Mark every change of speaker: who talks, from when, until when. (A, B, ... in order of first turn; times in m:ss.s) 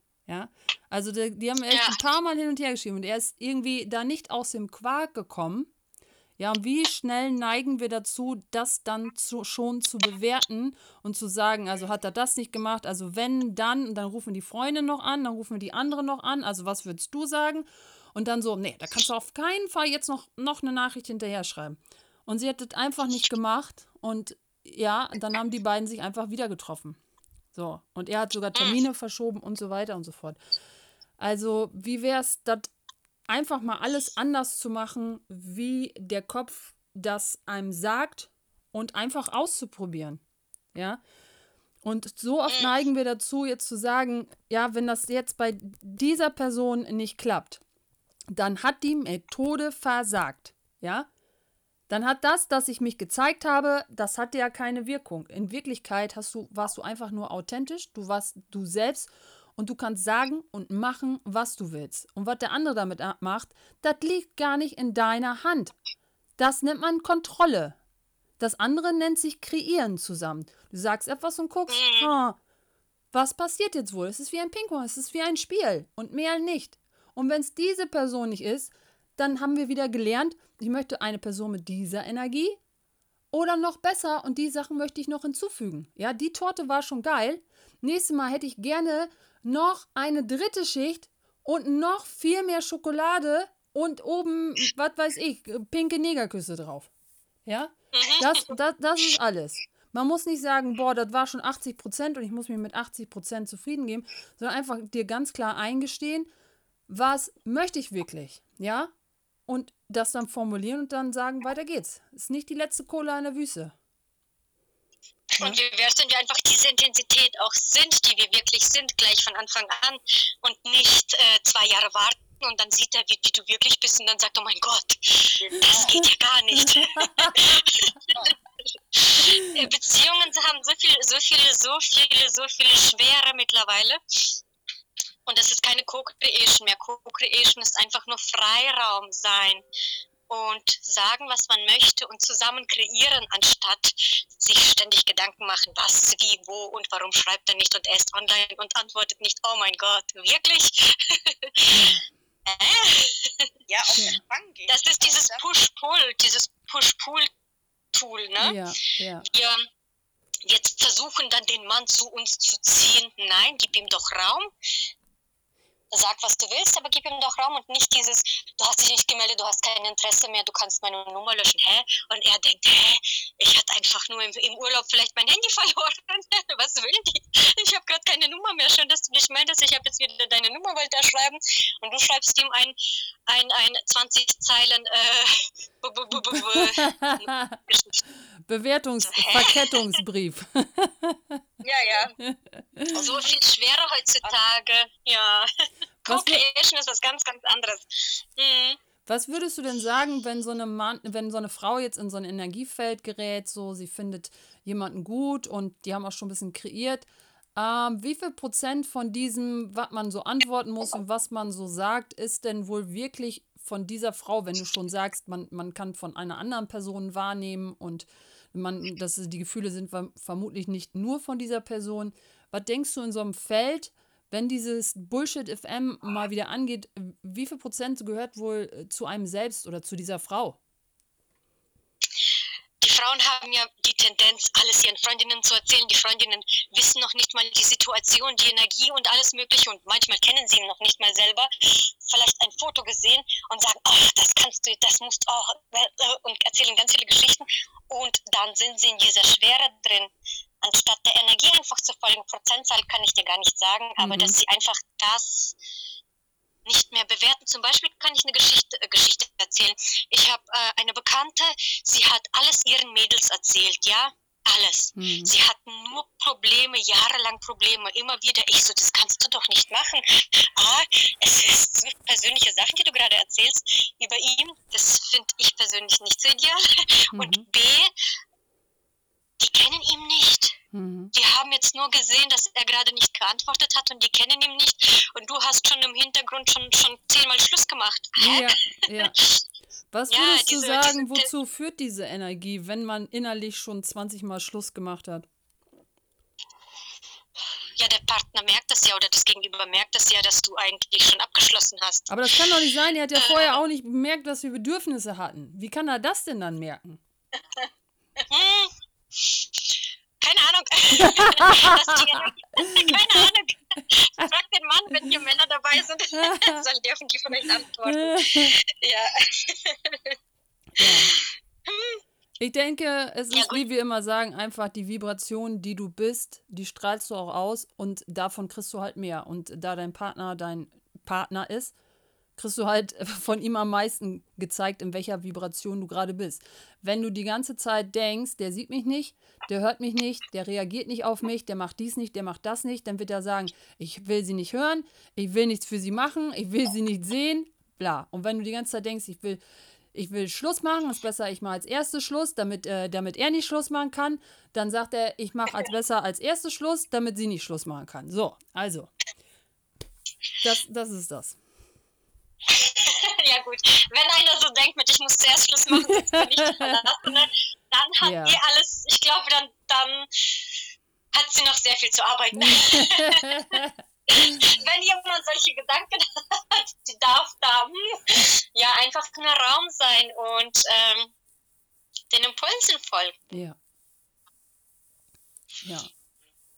0:00.3-0:05.7 A
0:01.7-0:02.0 B
0:06.4-0:27.0 A
0:27.5-0:30.4 A
0:28.5-0:28.8 B
0:31.2-0:32.7 A
0:33.3-0:40.2 A
0:40.7-0:41.0 A
0:41.8-0:47.6 A
0:48.3-0:51.1 A
0:51.9-1:05.7 A
1:06.4-1:07.8 A
1:08.4-1:12.4 A
1:11.7-1:12.1 B
1:13.1-1:22.6 A
1:23.3-1:36.9 A
1:37.4-1:46.3 A
1:37.9-1:38.5 B
1:46.9-1:48.9 A
1:49.5-1:53.7 A
1:55.4-2:14.4 B
2:05.4-2:05.9 C
2:05.7-2:07.5 A
2:15.2-2:19.6 B
2:20.3-2:31.7 B
2:31.7-2:32.0 A
2:32.4-2:33.5 B
2:33.7-2:35.4 C
2:33.9-2:34.2 A
2:34.7-2:37.3 B
2:37.9-2:38.6 B
2:38.4-2:39.2 A
2:39.2-2:39.6 B
2:40.4-2:44.5 B
2:45.9-3:08.0 B
3:06.3-3:07.6 A
3:08.4-3:11.4 A
3:09.0-3:09.8 B
3:11.6-3:12.1 B
3:12.2-3:12.9 A
3:12.9-3:15.5 B
3:12.9-3:13.2 C
3:16.0-3:18.8 B
3:16.1-3:16.4 A
3:19.0-3:50.6 A
3:52.8-4:10.1 B
4:10.6-4:15.6 B
4:14.0-4:14.4 A
4:16.6-4:37.9 B
4:24.9-4:25.3 A
4:37.1-4:37.4 A
4:39.4-4:40.6 B
4:40.7-4:41.1 A
4:41.1-4:49.4 B
4:48.2-4:49.2 A
4:49.9-4:55.3 A
4:50.1-4:51.3 B
4:57.8-5:02.2 B
5:02.1-5:07.0 A
5:03.2-5:03.6 B
5:08.2-5:20.2 B
5:10.9-5:13.0 A
5:16.1-5:16.6 A
5:17.8-5:18.6 A
5:20.8-5:21.1 A
5:20.8-5:22.0 B
5:22.4-5:31.7 A
5:23.3-5:23.6 B
5:32.4-5:49.4 A
5:49.9-5:58.9 A
6:00.4-6:01.4 A
6:02.5-6:10.5 B
6:05.9-6:06.7 A
6:08.0-6:08.4 A
6:11.1-6:13.6 B
6:12.3-6:14.5 A
6:14.1-6:21.1 B
6:22.1-6:23.2 B
6:23.3-6:23.6 A
6:25.6-6:25.9 A